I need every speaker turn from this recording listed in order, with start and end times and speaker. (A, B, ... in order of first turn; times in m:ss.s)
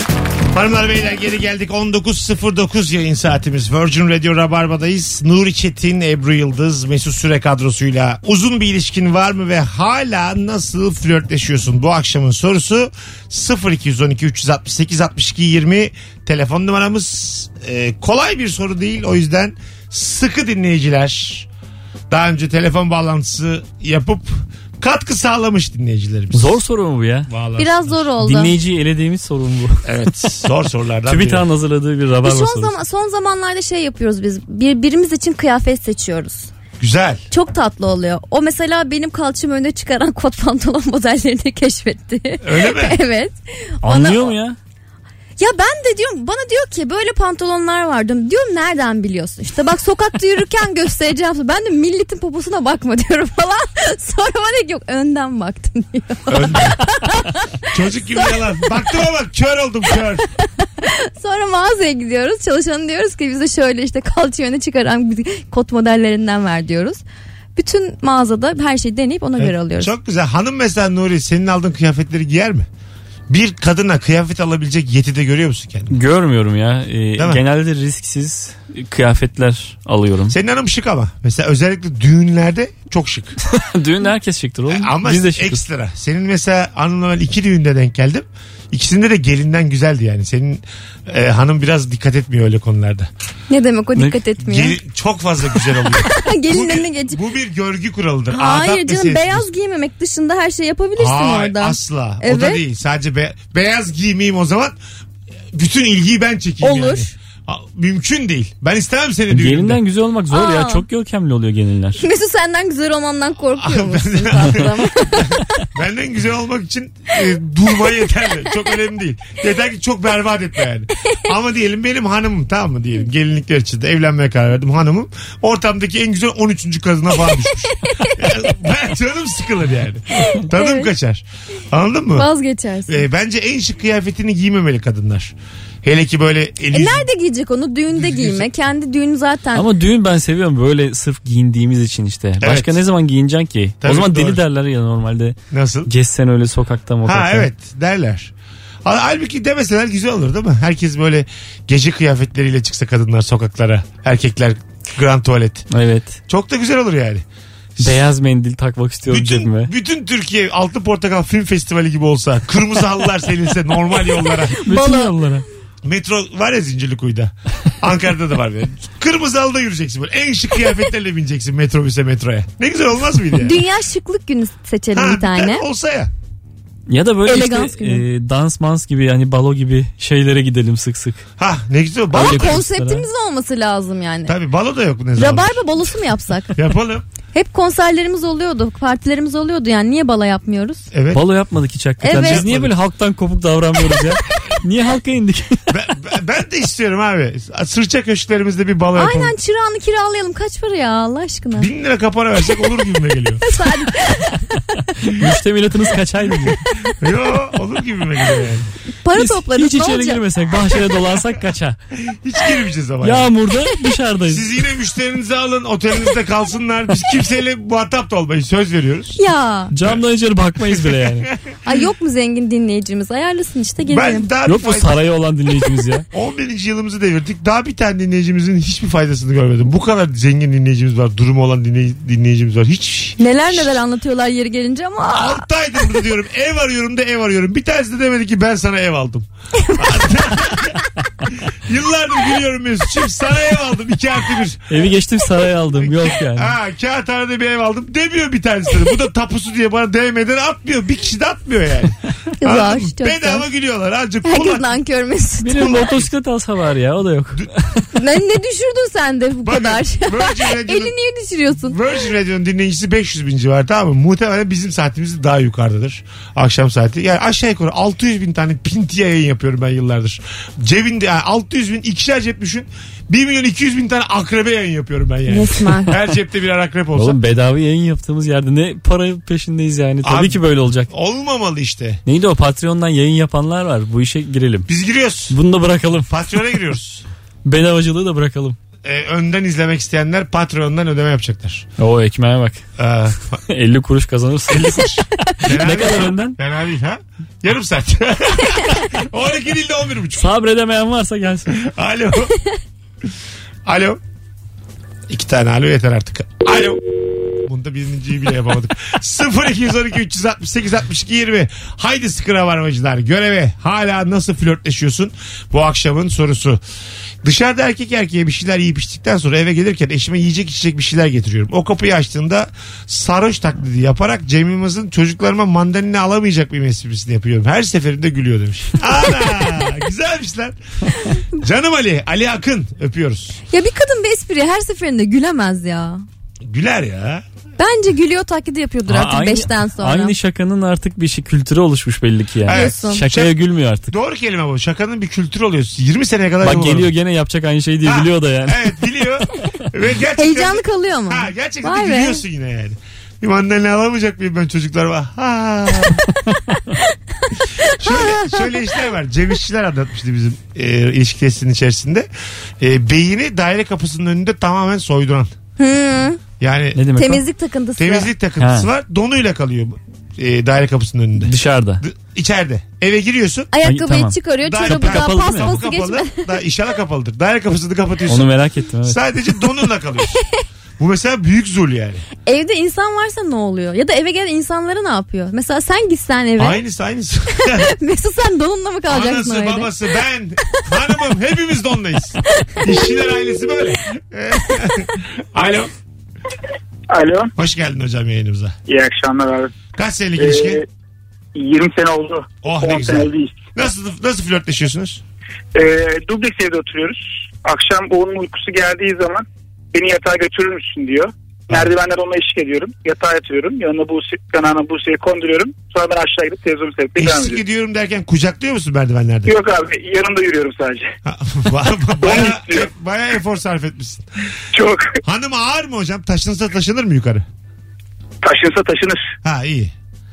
0:00.5-0:21.5 A
0:22.1-0:26.6 A
0:26.3-0:27.3 B
0:27.3-0:28.0 A
0:27.6-0:28.5 C
0:28.2-0:29.9 B
0:29.8-0:31.5 A
0:31.1-0:32.7 B
0:32.2-0:36.5 C
0:36.8-0:37.2 A
0:37.3-0:44.3 C
0:42.4-0:43.0 A
0:43.8-0:44.6 B
0:45.4-0:57.4 C
0:56.3-0:56.8 A
0:57.7-1:00.3 A
1:00.8-1:07.0 C
1:07.6-1:09.9 C
1:09.4-1:12.7 A
1:13.3-1:16.0 A
1:15.9-1:20.4 B
1:17.2-1:17.4 A
1:20.3-1:23.4 A
1:23.5-1:25.6 B
1:24.7-1:33.1 A
1:33.5-1:34.8 C
1:34.4-1:39.5 A
1:36.0-1:37.2 C
1:38.3-1:42.6 C
1:41.0-1:44.8 A
1:45.5-1:49.8 A
1:46.6-1:47.1 C
1:49.3-1:52.0 B
1:50.3-1:50.8 C
1:52.0-1:55.2 C
1:53.6-2:12.3 A
2:07.7-2:08.2 C
2:10.2-2:10.9 C
2:12.2-2:13.1 C
2:12.9-2:17.1 A
2:16.7-2:19.7 C
2:17.9-2:18.5 A
2:19.6-2:27.5 B
2:22.4-2:22.8 A
2:23.8-2:24.4 A
2:25.5-2:25.9 A
2:27.0-2:28.3 A
2:28.8-2:35.7 A
2:35.7-2:36.2 B
2:36.3-2:37.2 A
2:37.8-2:38.0 A
2:37.8-2:39.7 B
2:39.1-2:44.5 A
2:44.6-2:45.2 C
2:44.6-2:45.4 B
2:45.8-2:53.6 A
2:53.4-2:55.6 C
2:54.9-2:56.1 A
2:56.9-3:01.2 B
2:57.3-2:58.0 C
3:01.4-3:02.6 A
3:02.1-3:03.1 B
3:02.1-3:04.4 C
3:04.3-3:05.6 A
3:05.2-3:06.6 C
3:06.6-3:07.1 A
3:07.3-3:10.9 C
3:10.9-3:11.2 A
3:11.1-3:15.6 B
3:12.0-3:12.5 C
3:12.2-3:12.7 A
3:15.7-3:19.3 A
3:19.0-3:21.7 C
3:21.6-3:23.4 A
3:23.4-3:24.7 C
3:25.1-3:26.6 B
3:27.0-3:28.7 A
3:29.0-3:30.2 C
3:29.1-3:31.8 B
3:32.0-3:33.3 A
3:33.0-3:34.5 B
3:34.2-3:39.2 A
3:39.2-3:39.7 C
3:39.7-3:41.3 B
3:40.6-3:41.4 A
3:41.6-3:44.3 C
3:43.9-3:45.0 A
3:44.5-3:46.1 B
3:46.1-3:53.8 A
3:53.2-3:55.5 C
3:55.1-4:04.9 A
4:04.7-4:06.5 B
4:05.8-4:14.7 A
4:12.4-4:13.4 C
4:14.2-4:15.6 C
4:15.4-4:17.8 B
4:15.6-4:16.1 A
4:18.0-4:21.8 C
4:19.4-4:20.9 A
4:21.6-4:37.2 A
4:35.3-4:35.9 C
4:37.0-4:40.9 B
4:40.0-4:42.0 A
4:42.1-4:44.7 B
4:44.7-4:45.4 A
4:45.3-4:46.4 B
4:46.1-4:47.0 A
4:47.4-4:48.6 B
4:48.8-4:51.7 A
4:51.8-4:52.6 B
4:52.8-4:53.4 A
4:53.5-4:56.4 B
4:54.5-5:00.3 A
5:00.2-5:01.6 B
5:01.5-5:02.3 A
5:03.6-5:04.0 A
5:05.1-5:16.6 A
5:17.2-5:30.6 A
5:31.3-5:33.4 A
5:33.5-5:36.0 C
5:36.4-5:37.2 A
5:37.6-5:40.2 C
5:38.9-5:43.9 B
5:42.5-5:43.4 A
5:42.5-5:43.0 C
5:43.9-5:46.9 A
5:46.4-5:48.6 B
5:47.8-5:56.0 A
5:50.2-5:52.2 C
5:57.6-5:58.6 C
5:57.7-6:02.1 A
6:02.6-6:05.3 A
6:05.6-6:06.2 C
6:06.4-6:06.8 A
6:06.8-6:07.2 B
6:07.0-6:08.1 C
6:07.8-6:13.5 A
6:08.4-6:08.7 B
6:11.2-6:11.8 B
6:13.5-6:16.2 C
6:13.6-6:15.6 B
6:14.4-6:18.3 A
6:18.1-6:19.0 B
6:18.8-6:20.2 A
6:20.8-6:22.0 A
6:22.3-6:26.6 C
6:26.4-6:27.7 A
6:27.4-6:29.7 C
6:28.9-6:35.7 A
6:36.9-6:37.3 D
6:37.4-6:38.6 A
6:38.7-6:39.5 D
6:39.8-6:40.6 A
6:40.2-6:40.7 D
6:41.4-6:43.5 D
6:42.4-6:45.0 A
6:45.6-6:57.4 D
6:57.0-6:59.4 A
6:59.3-7:00.9 D
7:01.0-7:04.0 A
7:02.0-7:02.7 D
7:04.5-7:05.0 D
7:05.0-7:07.2 A
7:08.2-7:09.0 D
7:09.2-7:09.7 A